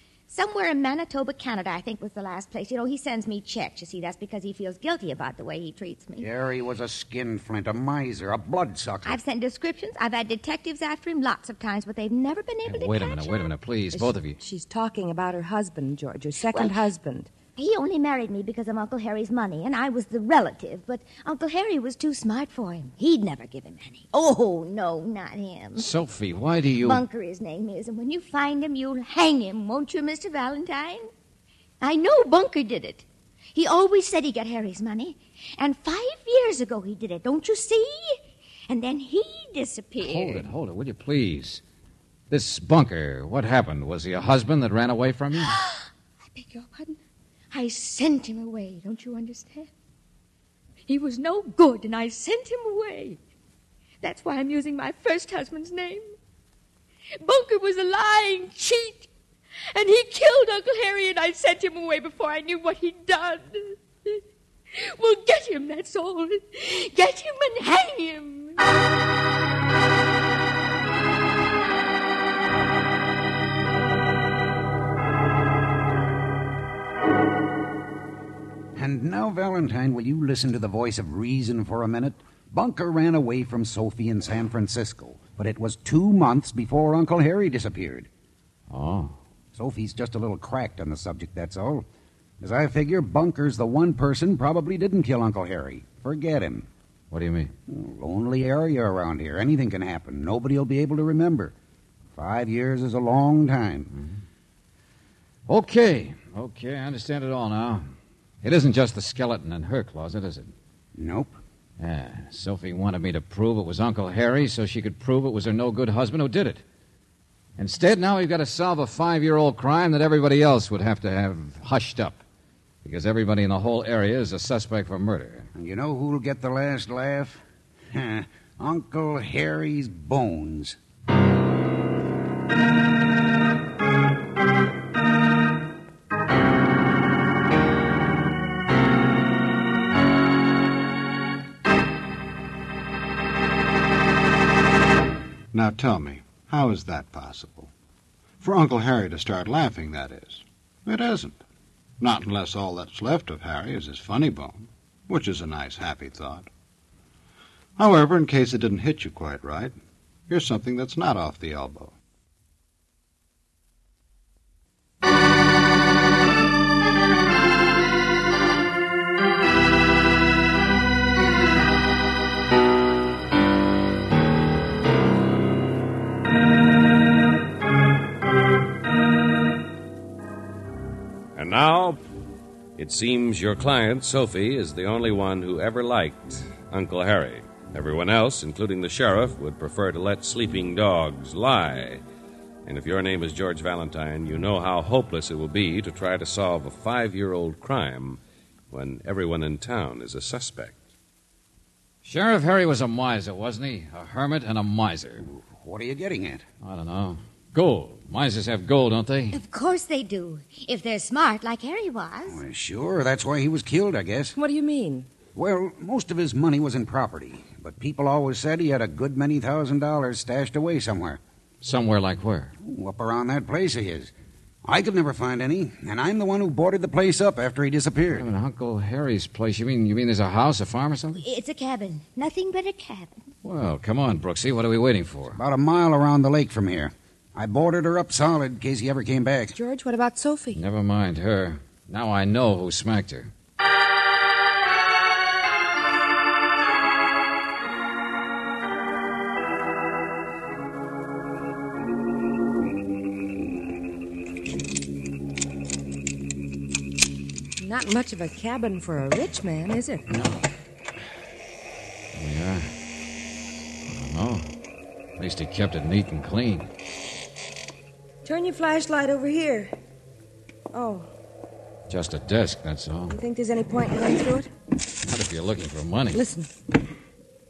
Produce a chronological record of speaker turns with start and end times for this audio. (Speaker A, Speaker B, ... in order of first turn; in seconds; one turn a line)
Speaker A: 0.3-6.3
Speaker B: 6.2-9.2
Speaker A: 9.1-13.5
Speaker C: 12.7-14.4
Speaker D: 13.9-17.3
Speaker A: 16.5-16.8
Speaker A: 17.6-25.9
Speaker C: 25.8-27.0
Speaker A: 26.8-31.1
Speaker A: 31.8-40.5
Speaker C: 40.0-41.6
Speaker C: 42.3-45.5
Speaker A: 45.4-47.0
Speaker A: 47.5-49.7
Speaker A: 50.9-53.2
Speaker A: 54.0-56.1
Speaker A: 57.2-59.1
Speaker A: 59.7-64.2
Speaker A: 64.8-68.6
Speaker B: 78.8-88.1
Speaker C: 88.7-89.2
Speaker B: 89.5-91.9
Speaker B: 92.4-96.7
Speaker C: 97.1-97.5
Speaker B: 97.7-101.5
Speaker B: 102.2-103.9
Speaker C: 105.5-107.9
Speaker C: 108.4-110.5
Speaker B: 111.0-111.4
Speaker C: 111.8-116.6
Speaker C: 117.6-122.2
Speaker C: 122.8-125.5
Speaker B: 125.5-130.8
Speaker E: 145.5-147.7
Speaker E: 148.4-151.4
Speaker E: 152.0-156.5
Speaker E: 157.8-159.7
Speaker E: 160.3-161.9
Speaker F: 181.3-182.0
Speaker F: 182.8-192.0
Speaker F: 192.7-198.2
Speaker F: 198.7-200.8
Speaker C: 202.0-205.3
Speaker B: 205.2-206.4
Speaker C: 206.6-209.4
Speaker A: 209.3-212.4
Speaker B: 212.3-214.4
Speaker D: 214.3-215.1
Speaker B: 215.3-221.2
Speaker C: 221.6-222.5
Speaker B: 222.6-224.1
Speaker B: 224.6-228.3
Speaker C: 228.1-231.2
Speaker A: 231.2-233.2
Speaker C: 233.4-235.4
Speaker B: 235.4-239.6
Speaker D: 239.5-240.6
Speaker C: 240.5-243.3
Speaker D: 257.6-260.2
Speaker C: 262.1-262.8
Speaker C: 263.9-264.5
Speaker C: 265.2-266.7
Speaker D: 268.2-269.7
Speaker D: 270.7-271.1
Speaker C: 271.9-273.1
Speaker D: 273.1-274.5
Speaker C: 275.1-276.2
Speaker D: 276.1-276.5